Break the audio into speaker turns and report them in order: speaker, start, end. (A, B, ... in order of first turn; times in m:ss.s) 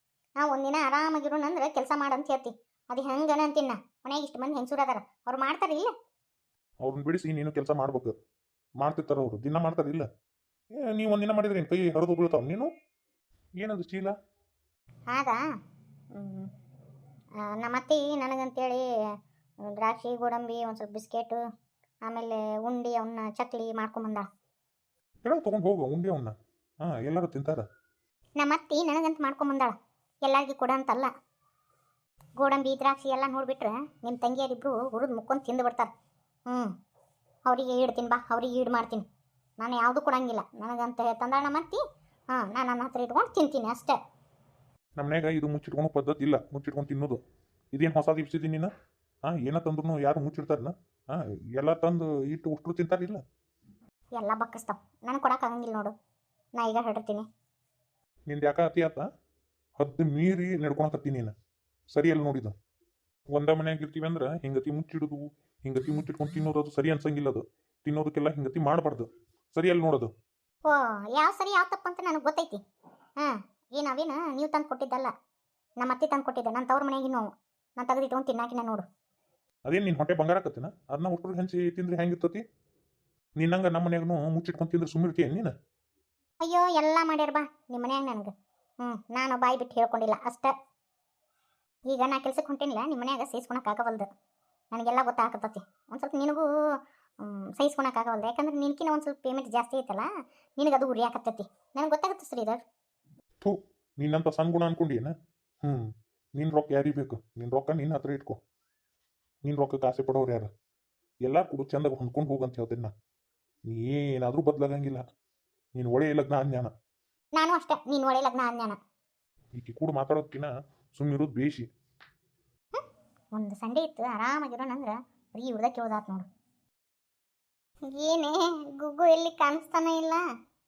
0:00.4-0:05.9 A
0:06.8-0:08.1 B
0:08.8-0:10.1 B
0:10.8-0:12.7 B
0:13.6-0:14.1 B
0:15.1-0:15.4 A
0:16.1-0:16.5 A
0:17.4-0:18.8 A
0:19.6-0:21.4 A
0:22.1-0:24.3 A
0:25.2-0:27.6 B
0:28.4-0:31.1 A
0:32.4-0:35.9 A
0:37.4-0:39.0 A
0:39.6-0:41.8 A
0:42.3-0:44.0 A
0:45.0-0:47.2 B
0:47.7-0:48.7 B
0:49.2-0:53.2 B
0:54.2-0:55.9 A
0:56.6-0:57.2 A
0:58.3-0:59.1 B
0:59.8-1:01.3 B
1:01.9-1:02.5 B
1:03.3-1:10.1 B
1:10.6-1:12.6 A
1:13.2-1:15.1 A
1:15.8-1:18.8 A
1:19.7-1:22.4 B
1:23.4-1:25.5 B
1:26.4-1:30.5 A
1:31.9-1:34.1 A
1:34.7-1:36.4 A
1:37.2-1:42.6 A
1:43.4-1:48.4 B
1:49.4-1:50.5 B
1:51.2-1:52.9 B
1:53.7-1:55.0 B
1:55.8-1:56.7 B
1:57.4-1:58.8 A
1:59.6-2:01.6 B
2:03.3-2:06.2 A
2:07.9-2:10.2 A